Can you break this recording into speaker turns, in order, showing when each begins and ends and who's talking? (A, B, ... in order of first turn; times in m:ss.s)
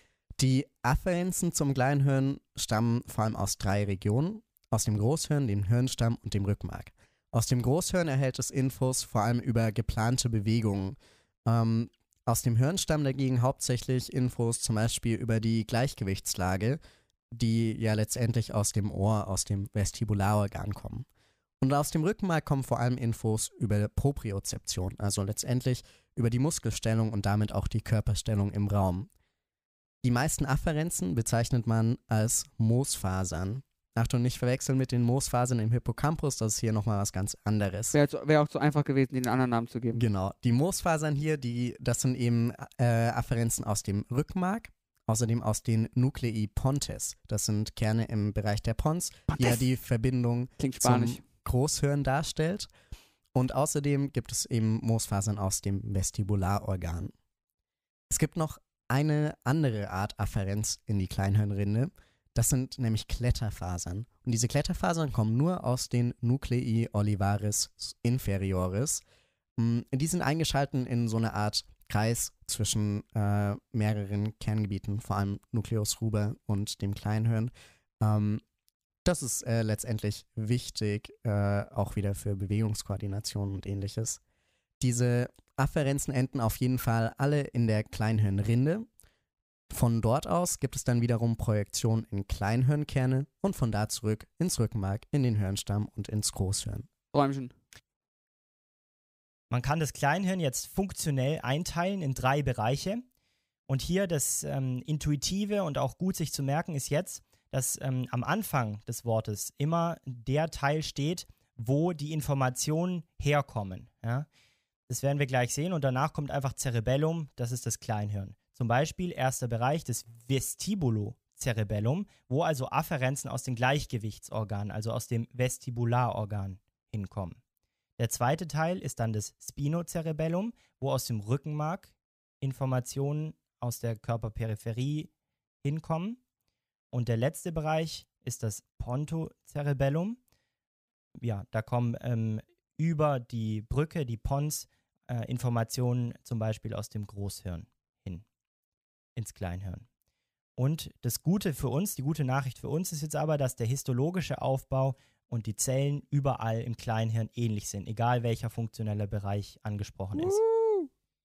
0:00.4-0:16.8 A
0:17.3-0:21.1 A
0:21.6-0:29.1 A
0:30.0-0:38.0 A
0:37.9-0:40.0 B
0:39.9-0:52.7 A
0:49.3-0:49.6 B
0:50.6-0:51.2 B
0:53.3-0:57.1 A
0:58.1-1:09.0 A
1:09.6-1:18.4 A
1:19.0-1:24.2 A
1:24.8-1:28.9 A
1:29.7-1:36.9 A
1:37.1-1:37.5 B
1:39.5-1:43.0 C
1:43.7-1:54.3 C
1:54.9-2:07.4 C
2:08.0-2:11.9 C
2:12.4-2:15.1 C
2:15.6-2:16.2 C
2:16.9-2:20.2 C
2:21.2-2:28.2 C
2:29.2-2:29.9 C
2:30.6-2:40.4 C
2:40.2-2:40.9 B